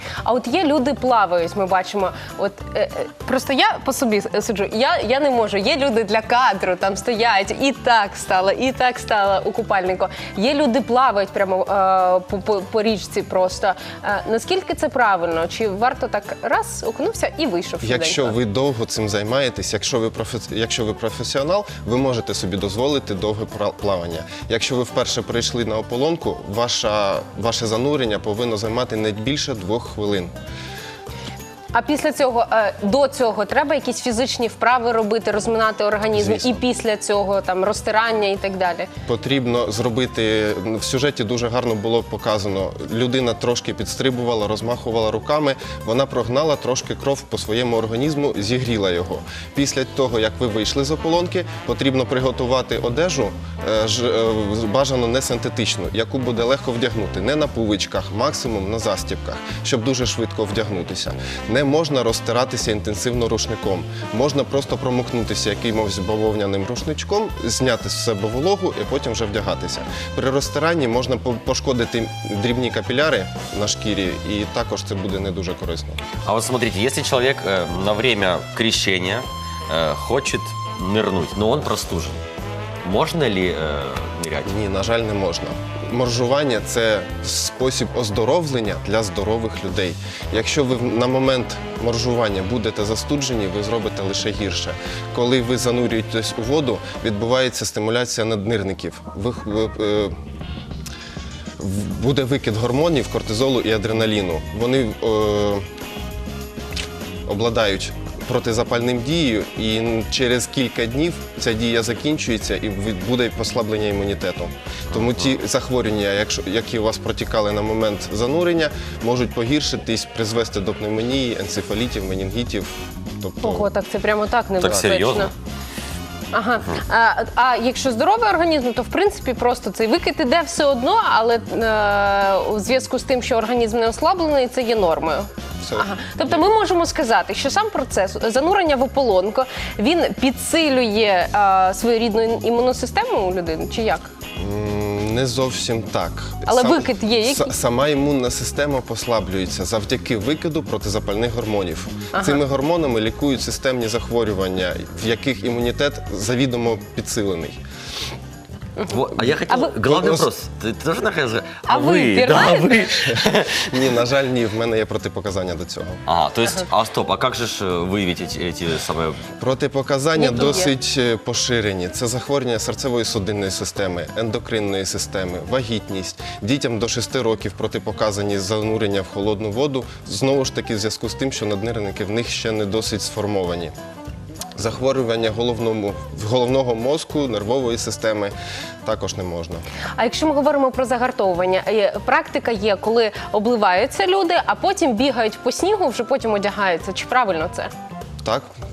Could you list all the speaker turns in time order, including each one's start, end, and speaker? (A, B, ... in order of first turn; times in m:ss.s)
0:00.2-0:18.3 A
0:17.8-0:30.3 B
0:31.7-0:38.9 A
0:36.1-0:36.5 B
0:39.1-1:16.0 B
1:16.2-1:22.2 C
1:22.8-1:24.5 C
1:24.4-1:40.2 B
1:41.6-1:45.6 B
1:47.3-2:03.7 B
2:03.4-2:05.3 A
2:04.6-2:05.3 C
2:06.3-2:24.1 A
2:15.6-2:16.4 B
2:24.4-2:37.6 B
2:26.5-2:27.5 A
2:32.1-2:32.4 A
2:38.9-2:43.8 C
2:39.5-2:39.7 A
2:39.9-2:40.2 B
2:41.6-2:42.9 A
2:43.6-2:46.0 B
2:46.0-2:49.2 C
2:49.4-3:03.7 B
2:50.1-2:50.7 A
3:04.6-3:09.6 B
3:10.0-3:17.7 A
3:18.2-3:18.5 B